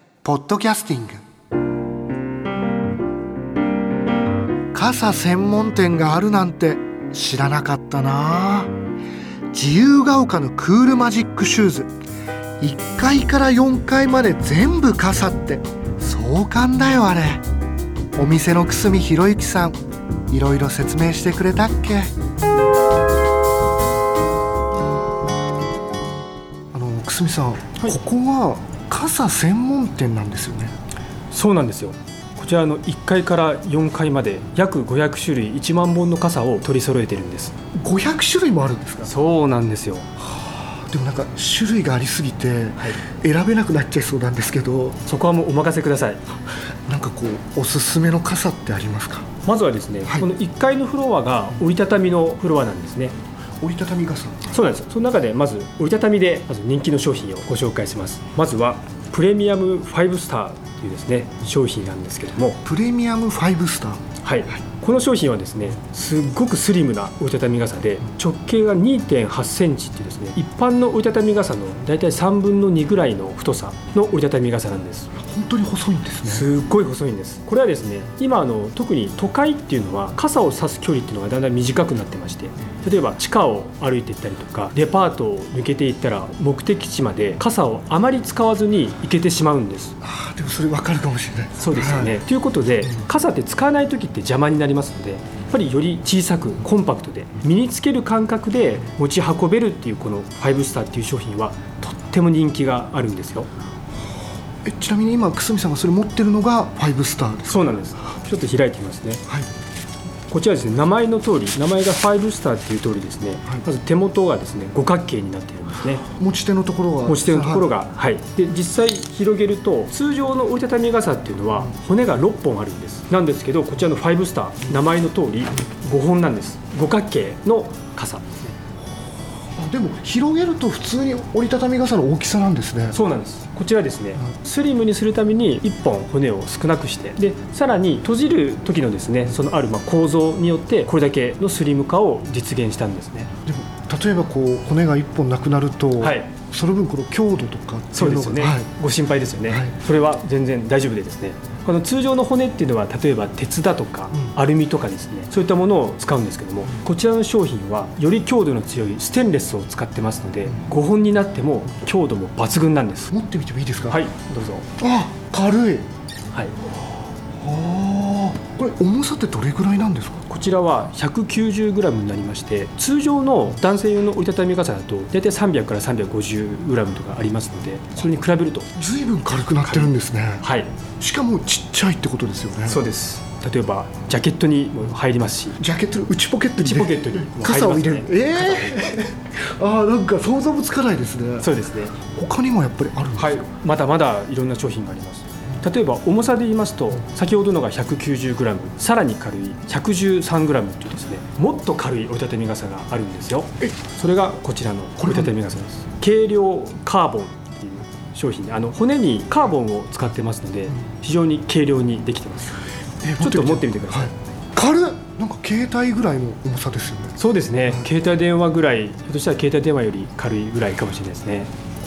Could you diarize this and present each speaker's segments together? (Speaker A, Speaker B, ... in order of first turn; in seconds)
Speaker A: 0.2-1.2, 4.7-8.7, 9.5-11.9, 12.6-17.4, 18.2-22.1, 26.7-30.7, 37.8-39.1, 40.2-45.0, 46.9-49.3, 53.6-54.6, 62.6-64.0, 75.2-76.5, 90.0-92.2, 104.6-107.7, 116.2-117.7, 129.6-133.0, 143.5-148.7, 149.5-149.7, 163.1-164.0, 164.8-165.9, 167.4-170.2, 178.8-180.4, 181.0-182.8, 185.6-191.5, 192.1-193.4, 205.0-205.3, 213.0-217.9
Speaker B: 31.3-37.6, 39.0-40.1, 45.1-46.2, 49.4-53.2, 54.5-62.6, 64.2-75.1, 76.3-90.0, 91.6-103.5, 107.5-109.2, 110.3-116.1, 117.0-128.5, 132.9-143.3, 146.0-146.4, 147.9-163.1, 163.9-164.7, 170.3-178.7, 179.7-180.8, 182.7-185.6, 186.6-188.9, 191.4-192.0, 193.2-212.6, 213.2-214.1, 217.2-221.5